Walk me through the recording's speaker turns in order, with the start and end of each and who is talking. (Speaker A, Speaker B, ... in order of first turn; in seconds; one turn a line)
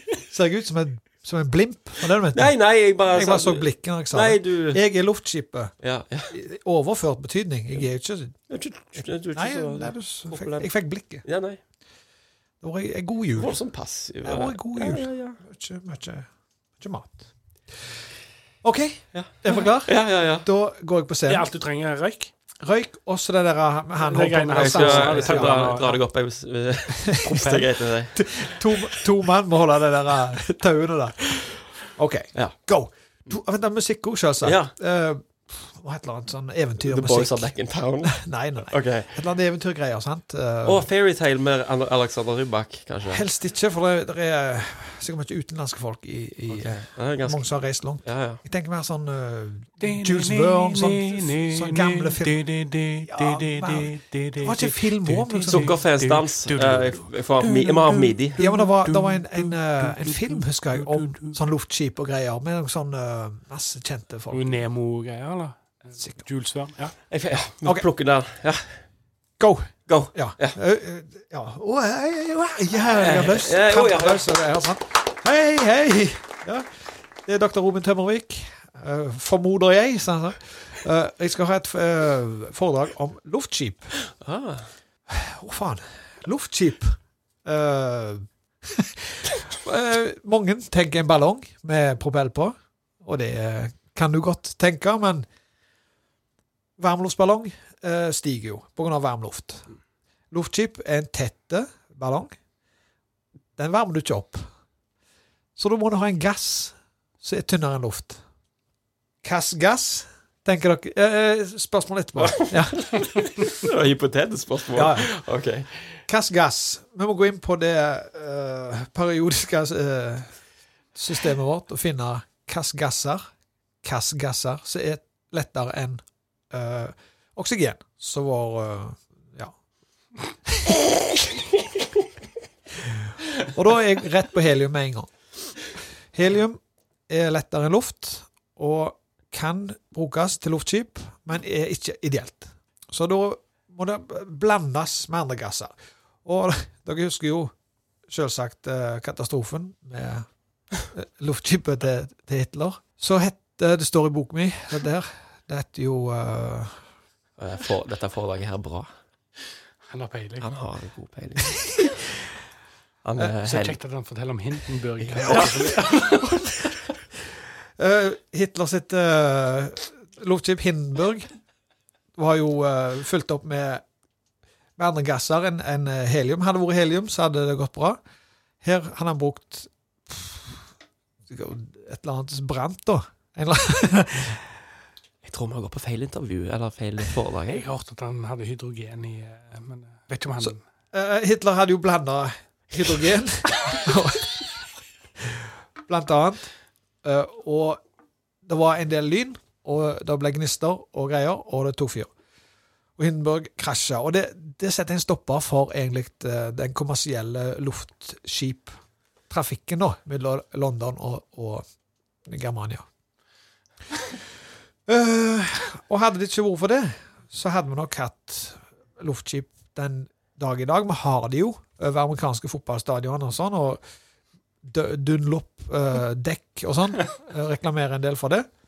Speaker A: 0.3-2.5
Speaker B: 2.3-4.8
Speaker A: 3.1-5.7
Speaker B: 5.8-6.3
Speaker A: 6.3-8.4
Speaker B: 8.5-10.7
Speaker A: 9.3-11.2
Speaker B: 11.2-11.6
Speaker A: 12.6-13.6
Speaker B: 13.4-15.4
Speaker A: 14.2-16.3
Speaker A: 16.8-17.3
Speaker A: 18.6-21.5
Speaker B: 19.1-20.4
Speaker C: 21.3-22.3
Speaker A: 22.6-25.9
Speaker C: 24.0-25.9
Speaker B: 24.6-28.2
Speaker A: 27.0-31.3
Speaker A: 31.9-37.5
Speaker B: 34.4-34.7
Speaker B: 36.8-38.2
Speaker A: 38.0-40.9
Speaker B: 38.7-39.1
Speaker B: 40.6-43.2
Speaker A: 43.1-52.4
Speaker B: 46.5-47.5
Speaker B: 48.0-48.4
Speaker C: 49.8-61.4
Speaker A: 53.0-55.7
Speaker B: 55.5-58.4
Speaker A: 58.4-64.4
Speaker C: 64.3-67.0
Speaker B: 67.1-68.8
Speaker A: 69.4-76.7
Speaker B: 69.9-70.6
Speaker B: 72.9-74.3
Speaker A: 77.2-83.9
Speaker B: 84.2-84.7
Speaker A: 85.1-95.2
Speaker A: 96.8-99.7
Speaker A: 100.3-102.3
Speaker A: 103.6-104.4
Speaker A: 105.5-108.2
Speaker A: 109.2-113.3
Speaker B: 112.2-115.9
Speaker A: 114.7-115.1
Speaker A: 116.1-120.3
Speaker A: 120.9-123.2
Speaker A: 123.8-129.5
Speaker A: 130.5-130.8
Speaker A: 132.8-135.1
Speaker A: 136.1-145.7
Speaker A: 146.2-147.5
Speaker A: 148.1-150.2
Speaker A: 150.9-156.8
Speaker B: 157.4-158.9
Speaker C: 159.9-160.4
Speaker B: 160.4-161.9
Speaker B: 163.0-163.8
Speaker C: 163.4-166.2
Speaker B: 165.0-166.2
Speaker A: 165.2-166.5
Speaker A: 167.8-171.3
Speaker A: 172.2-173.8
Speaker A: 174.8-178.0
Speaker A: 178.6-180.6
Speaker A: 181.3-184.4
Speaker B: 185.2-187.6
Speaker C: 187.5-190.6
Speaker A: 190.4-194.4
Speaker A: 195.2-196.5
Speaker A: 197.0-197.8
Speaker A: 198.4-202.1
Speaker A: 203.0-208.7
Speaker A: 209.3-211.6
Speaker A: 212.2-212.8
Speaker A: 214.9-223.8
Speaker A: 224.6-228.5